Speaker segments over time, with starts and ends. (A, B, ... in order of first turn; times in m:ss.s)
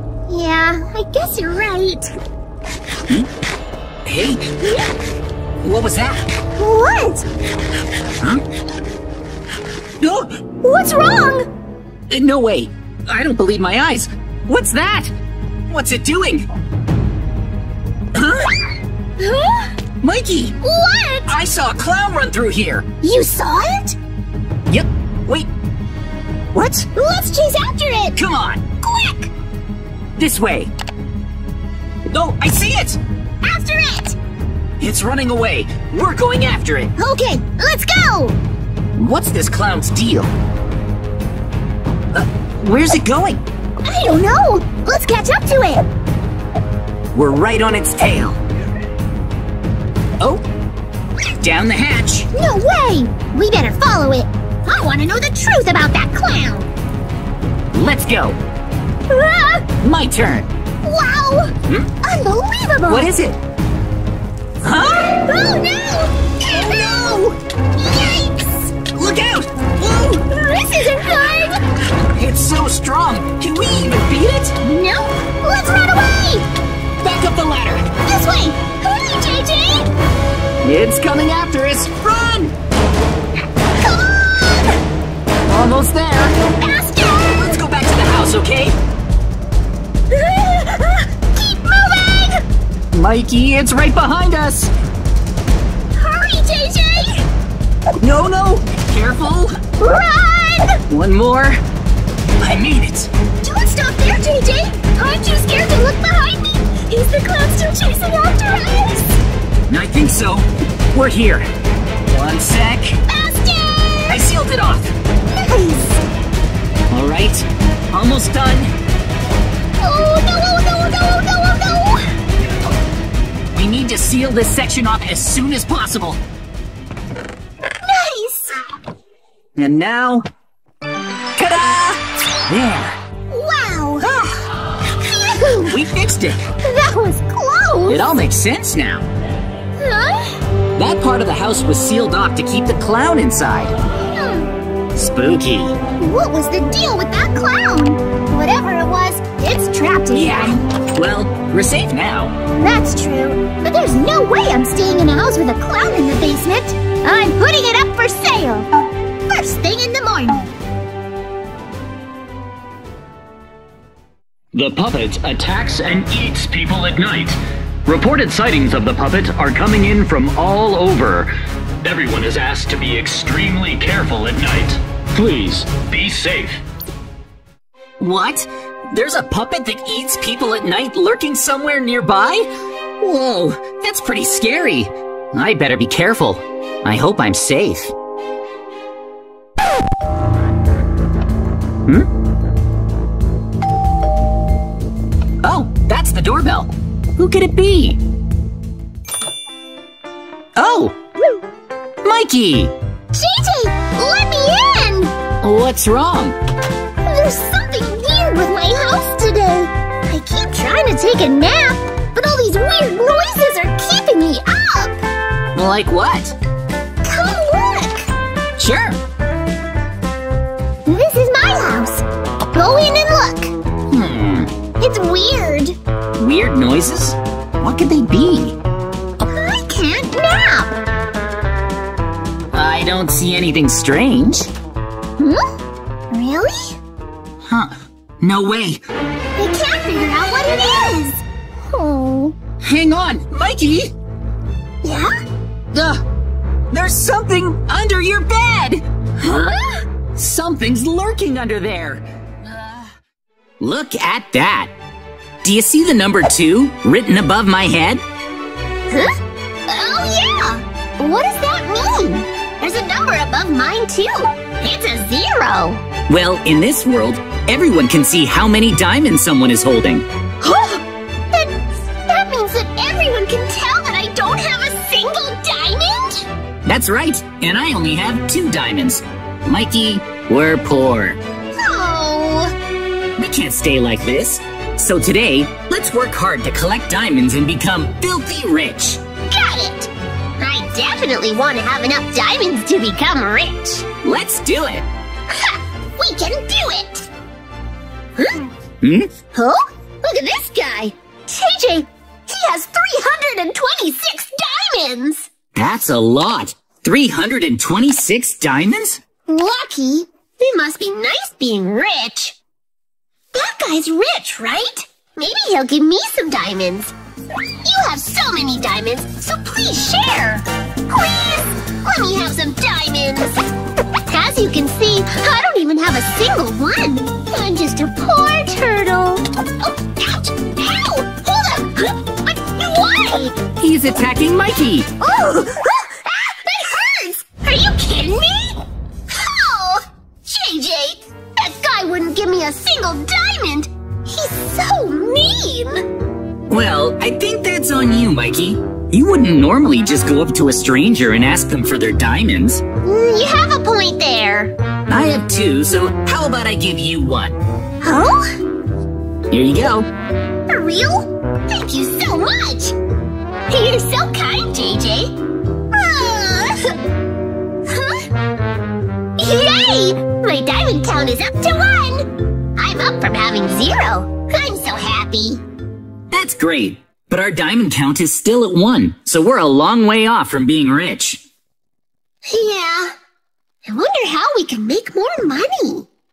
0:00.3-0:02.1 A
0:04.0-0:04.5 B
0:04.6-0:04.9 A
0:05.6-0:06.2 B
0:06.6-0:07.2 A
0:10.0-0:10.4 B
0:10.6-0:11.5 A
0:12.1-0:15.1 B
0:15.7-0:16.5 B
0:18.1-0:18.6 B
0:19.2-0:19.7 A
0:20.0-0:20.6 B
0:20.6-0:21.3 A
0:21.3-0:22.9 B
0:23.0-0:24.0 A
0:24.7-0:25.5 B
0:26.5-0:26.9 B
0:26.9-0:28.2 A
0:28.1-0:28.7 B
0:28.8-0:29.3 A
0:30.2-0:30.7 B
0:32.1-0:33.0 B
0:33.4-0:34.2 A
0:34.8-0:36.9 B
0:37.0-0:38.4 A
0:39.0-0:40.3 B
0:42.1-0:43.4 B
0:43.8-0:45.9 A
0:47.1-0:48.4 B
0:51.4-0:52.3 B
0:52.3-0:56.7 A
0:57.7-0:58.4 B
0:59.1-0:59.7 A
0:59.8-1:00.5 B
1:00.8-1:03.1 A
1:02.9-1:03.4 B
1:04.6-1:05.2 B
1:05.1-1:06.9 A
1:06.4-1:07.4 B
1:07.8-1:08.7 A
1:08.9-1:10.0 B
1:09.9-1:11.7 A
1:12.1-1:14.6 B
1:14.6-1:16.5 A
1:17.0-1:17.9 B
1:18.0-1:19.9 A
1:20.6-1:22.5 B
1:23.6-1:24.8 A
1:25.5-1:26.5 B
1:26.5-1:27.6 A
1:27.3-1:28.8 B
1:30.1-1:32.4 A
1:32.9-1:34.7 B
1:35.9-1:37.2 A
1:38.0-1:39.6 B
1:39.8-1:40.8 A
1:40.9-1:41.6 B
1:42.4-1:43.1 B
1:43.4-1:49.2 A
1:49.7-1:51.4 B
1:52.1-1:53.0 B
1:53.1-1:54.2 A
1:54.0-1:54.9 B
1:55.4-1:56.0 A
1:56.9-1:58.7 B
1:59.8-2:02.1 A
2:03.5-2:06.2 B
2:07.8-2:08.8 A
2:09.6-2:10.3 B
2:11.4-2:13.0 B
2:13.3-2:15.8 A
2:15.6-2:16.4 B
2:16.6-2:18.2 A
2:17.9-2:19.1 B
2:19.8-2:20.4 A
2:20.8-2:23.7 B
2:24.0-2:24.5 A
2:25.0-2:25.8 B
2:26.0-2:30.6 A
2:30.1-2:32.3 B
2:32.6-2:38.7 A
2:39.3-2:40.5 A
2:44.5-2:51.3 C
2:51.8-2:56.6 C
2:58.0-3:07.9 B
3:15.4-3:18.0 B
3:20.6-3:21.0 B
3:22.0-3:22.7 B
3:23.1-3:25.1 A
3:25.4-3:26.4 B
3:27.0-3:35.0 A
3:35.5-3:36.4 B
3:37.0-3:38.1 A
3:38.6-3:39.0 B
3:40.8-3:43.5 A
3:43.9-3:44.5 B
3:44.8-3:45.8 A
3:46.2-3:48.6 B
3:49.2-3:50.8 A
3:52.5-3:54.5 B
3:55.2-3:55.4 A
3:56.1-3:56.8 A
3:57.4-3:58.8 B
3:59.4-4:02.4 A
4:02.6-4:03.9 B
4:04.8-4:05.2 A
4:05.7-4:06.0 B
4:06.7-4:08.8 B
4:09.2-4:09.8 A
4:10.1-4:12.9 B
4:13.6-4:14.7 B
4:15.4-4:18.0 B
4:18.9-4:25.8 A
4:26.1-4:30.0 B
4:30.4-4:36.3 A
4:36.6-4:41.2 B
4:41.5-4:42.5 A
4:43.2-4:49.0 B
4:49.3-4:53.9 A
4:54.0-4:54.8 B
4:55.3-4:57.1 A
4:58.2-4:58.5 A
4:58.8-4:59.1 B
4:59.3-5:05.3 A
5:05.5-5:09.0 B
5:09.3-5:12.4 A
5:13.3-5:16.9 A
5:17.6-5:23.5 A
5:24.1-5:33.4 A
5:33.6-5:34.9 B
5:35.0-5:45.9 A
5:46.5-5:52.6 B
5:52.8-5:54.5 A
5:54.9-5:57.4 B
5:57.8-5:58.4 A
5:59.3-5:59.9 B
6:00.5-6:02.8 A
6:03.5-6:05.2 A
6:05.7-6:06.8 A
6:07.6-6:08.1 A
6:09.2-6:15.4 A
6:16.1-6:21.2 B
6:22.2-6:22.9 A
6:23.6-6:25.9 A